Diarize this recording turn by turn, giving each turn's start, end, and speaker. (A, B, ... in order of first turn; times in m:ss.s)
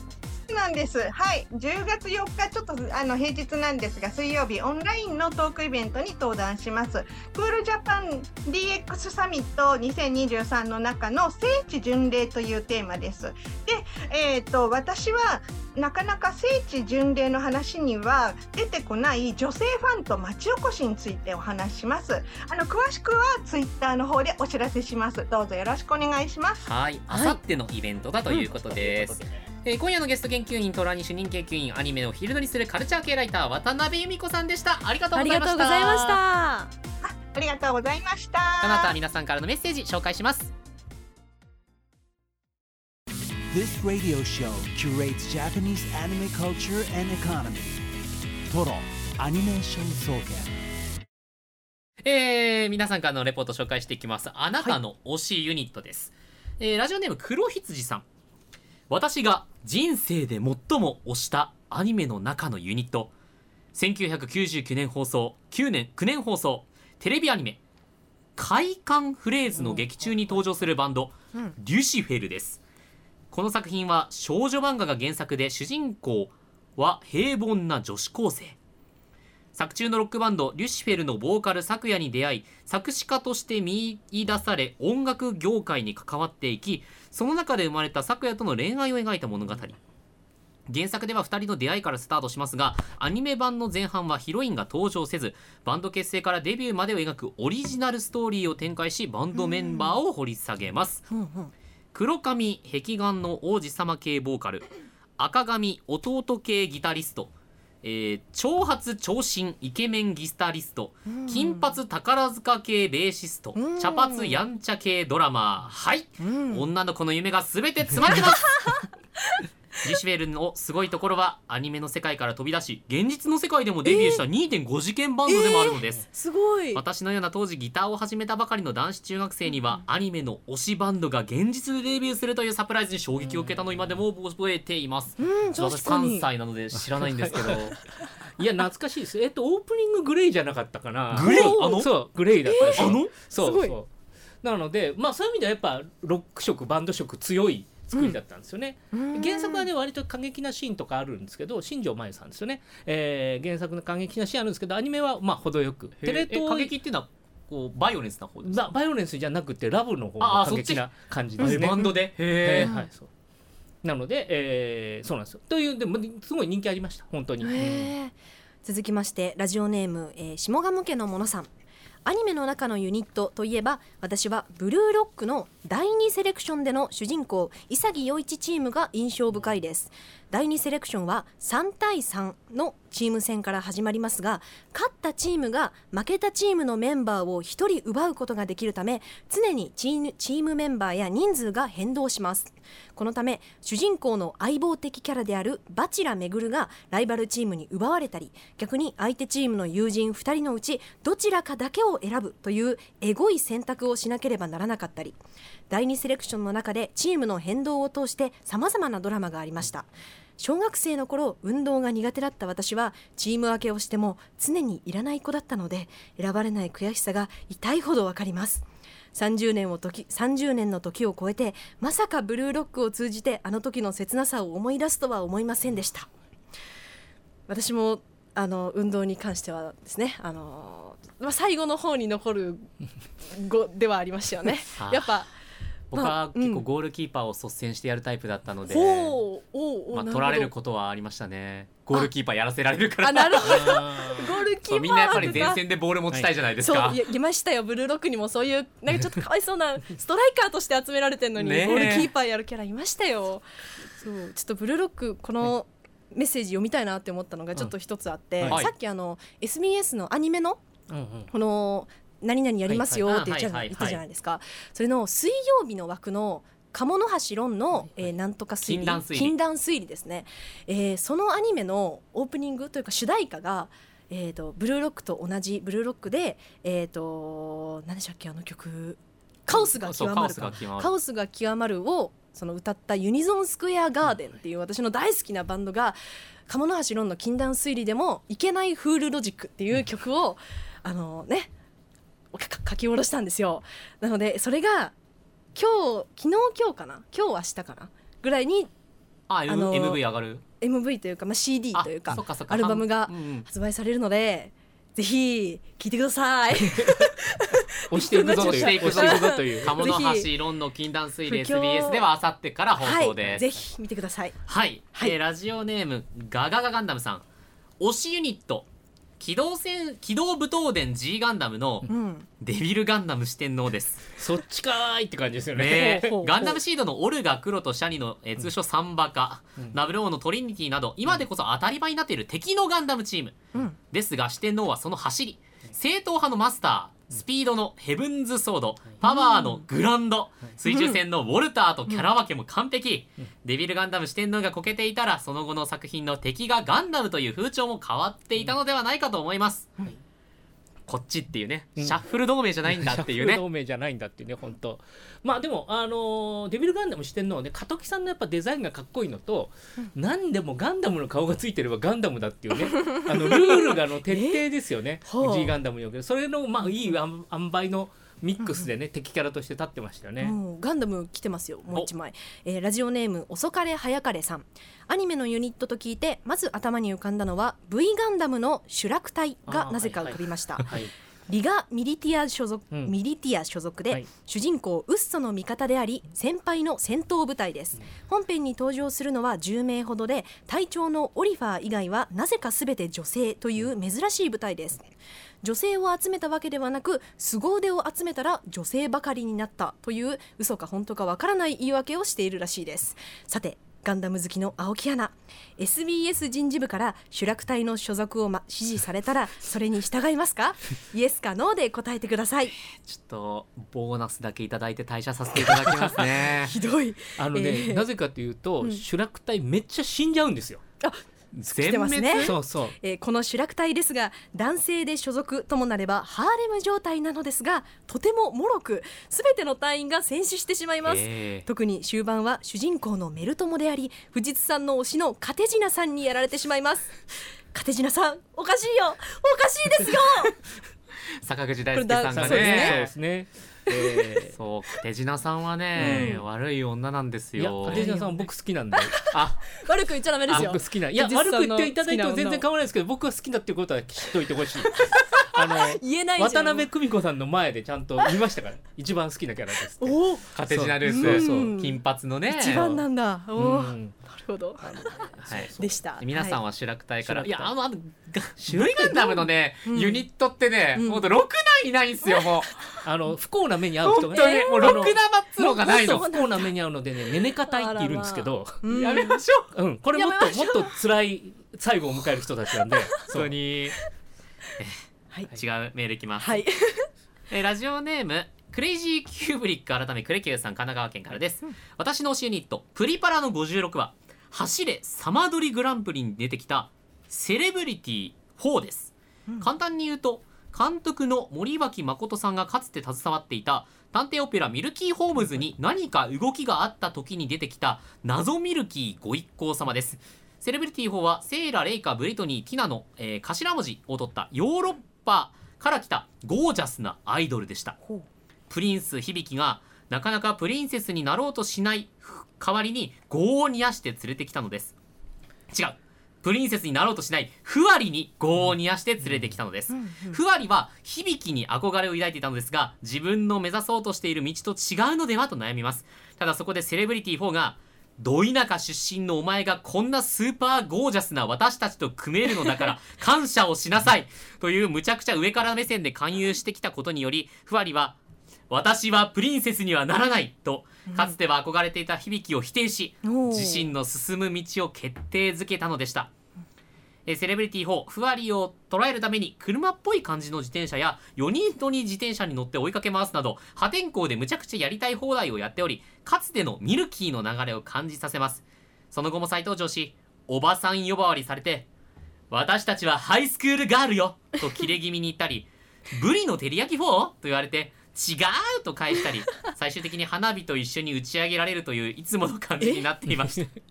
0:00.5-0:26.7 A
0:26.6-0:36.2 B
0:27.1-0:27.4 C
0:35.1-0:36.7 C
0:37.0-0:38.9 A
0:38.6-0:40.5 B
0:43.5-0:47.8 D
0:48.5-0:50.6 D
0:52.0-0:58.0 B
0:58.9-1:03.1 B
1:03.7-1:07.6 B
1:08.4-1:12.6 B
1:13.3-1:18.6 B
1:19.5-1:29.8 B
1:30.7-1:41.1 B
1:39.3-1:40.0 C
1:41.1-1:41.5 C
1:41.9-1:44.7 B
1:45.2-1:47.3 B
1:47.8-1:58.9 B
1:51.1-1:51.6 C
1:53.6-1:54.4 C
1:56.2-1:56.6 C
1:59.8-2:06.1 B
2:03.8-2:04.2 C
2:05.2-2:06.8 C
2:06.7-2:17.8 B
2:15.2-2:16.3 C
2:16.8-2:23.9 E
2:21.1-2:23.1 B
2:21.2-2:21.6 C
2:22.4-2:23.8 C
2:24.4-2:36.7 E
2:28.9-2:29.7 C
2:36.0-2:38.6 B
2:38.4-2:43.1 E
2:40.2-2:42.8 B
2:41.4-2:42.9 C
2:43.8-2:47.9 E
2:47.4-2:51.5 C
2:52.0-3:25.2 C
3:25.7-3:46.1 C
3:47.5-3:55.3 C
3:54.7-3:55.1 B
3:55.9-3:59.2 B
3:55.9-3:56.6 C
3:58.7-4:00.5 C
3:59.9-4:04.1 B
4:03.0-4:05.6 C
4:03.4-4:04.3 E
4:04.6-4:07.0 B
4:05.1-4:05.4 E
4:06.6-4:20.6 C
4:11.4-4:12.1 B
4:18.4-4:18.7 B
4:20.9-4:21.3 E
4:21.3-4:51.5 C
4:22.7-4:23.0 E
4:23.0-4:24.0 B
4:28.6-4:29.4 B
4:39.5-4:40.9 B
4:52.3-4:54.9 C
4:55.5-4:58.7 C
4:59.3-5:00.4 B
4:59.5-5:00.0 C
5:00.6-5:10.3 C
5:01.7-5:03.5 B
5:06.7-5:07.0 E
5:07.9-5:09.9 E
5:08.2-5:13.6 B
5:11.3-5:12.0 C
5:12.8-5:14.4 C
5:14.5-5:17.2 B
5:17.8-5:18.7 B
5:19.2-5:21.9 B
5:21.9-5:22.2 C
5:22.4-5:24.1 B
5:24.2-5:26.2 E
5:25.5-5:49.8 B
5:25.7-5:26.6 C
5:39.0-5:39.6 C
5:50.9-5:53.4 B
5:52.7-6:10.4 E
6:02.8-6:04.4 C
6:05.1-6:05.5 C
6:08.4-6:08.7 C
6:10.2-6:34.9 C
6:19.5-6:20.9 E
6:35.4-6:52.5 C
6:52.6-6:56.6 B
6:55.5-6:56.0 E
6:56.4-6:57.8 C
6:57.2-7:00.6 E
7:00.8-7:20.3 C
7:01.3-7:02.3 B
7:02.2-7:02.8 E
7:10.8-7:11.4 B
7:21.2-7:22.9 B
7:21.7-7:22.8 C
7:22.1-7:24.3 E
7:24.3-7:27.8 B
7:25.8-7:26.2 E
7:25.8-7:26.2 C
7:27.4-7:29.2 E
7:27.7-7:32.4 C
7:29.1-7:29.5 B
7:30.3-7:30.6 B
7:30.3-7:41.5 E
7:34.8-7:36.7 C
7:39.8-7:40.2 C
7:40.3-7:42.7 B
7:40.8-7:44.9 C
7:42.4-7:42.8 E
7:43.4-7:44.0 E
7:44.6-7:45.8 E
7:45.2-7:52.8 B
7:45.6-7:46.4 C
7:47.0-7:47.5 E
7:48.4-7:49.3 E
7:49.6-7:50.1 C
7:50.7-7:51.1 C
7:52.8-7:58.7 E
7:53.8-7:56.1 B
7:54.1-7:56.5 C
7:57.4-7:59.2 C
7:58.7-7:59.5 B
7:59.5-8:03.3 E
7:59.9-8:00.7 C
8:02.6-8:02.9 C
8:03.1-8:03.8 B
8:05.3-8:06.4 B
8:06.2-8:06.9 C
8:07.3-8:37.8 B
8:38.5-8:44.7 B
8:45.5-9:08.0 B
8:49.7-8:50.2 C
9:08.5-9:16.1 B
9:10.9-9:11.2 C
9:13.0-9:13.7 C
9:17.0-9:31.7 B
9:32.3-9:43.6 B